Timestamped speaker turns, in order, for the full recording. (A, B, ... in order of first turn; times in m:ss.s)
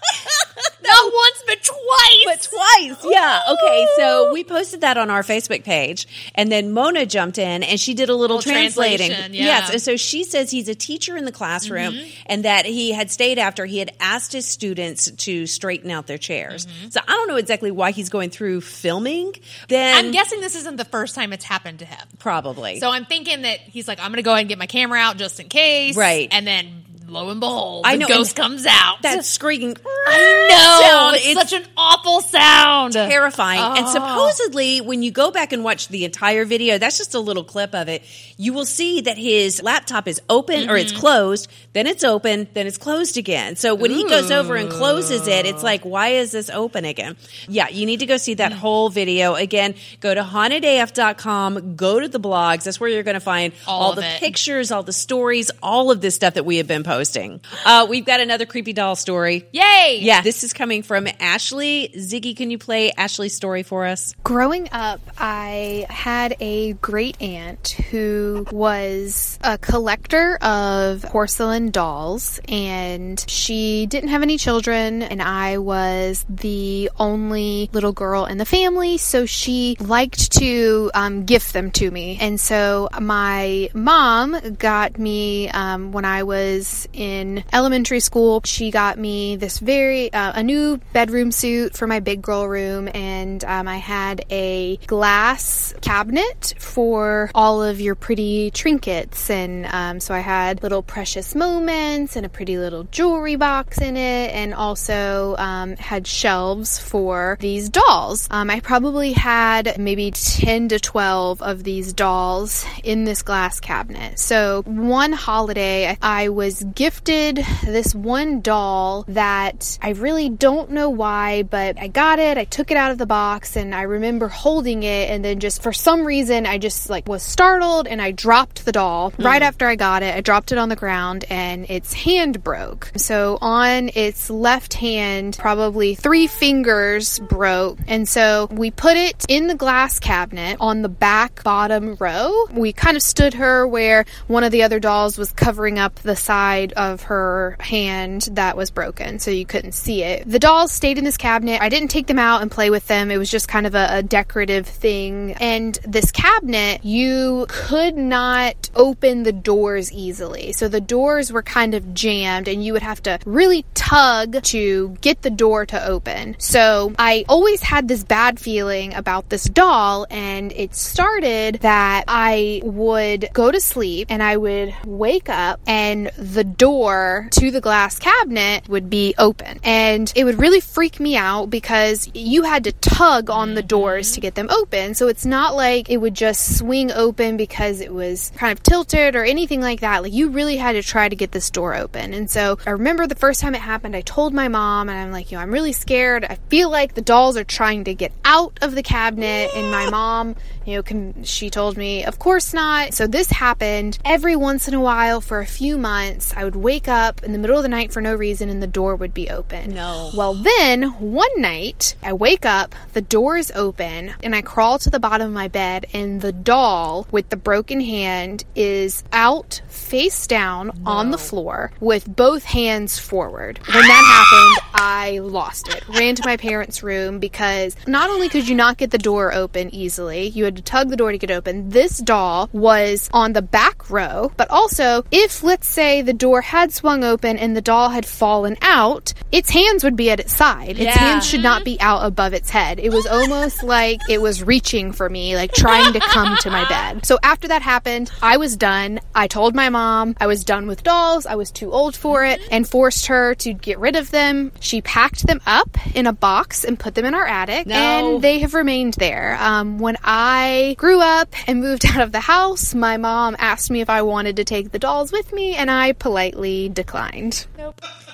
0:00.8-0:01.1 A
0:00.8-0:04.3 B
0:02.2-0:20.2 A
0:08.3-0:09.8 B
0:11.6-0:12.1 B
0:16.5-0:16.9 B
0:19.9-0:22.1 B
0:22.2-0:22.8 A
0:22.8-0:29.2 B
0:25.9-0:26.3 A
0:27.8-0:28.3 A
0:29.0-0:31.5 A
0:30.1-0:34.4 B
0:32.9-1:04.1 A
0:40.6-0:41.0 B
0:43.8-0:45.3 B
0:53.7-0:54.3 B
0:59.5-1:00.2 B
1:04.2-4:27.5 C
2:09.2-2:09.5 A
3:03.4-3:04.2 B
3:29.6-3:30.2 A
3:40.8-3:41.3 B
4:00.8-4:01.4 A
4:00.8-4:01.7 B
4:05.7-4:06.9 B
4:17.6-4:18.3 A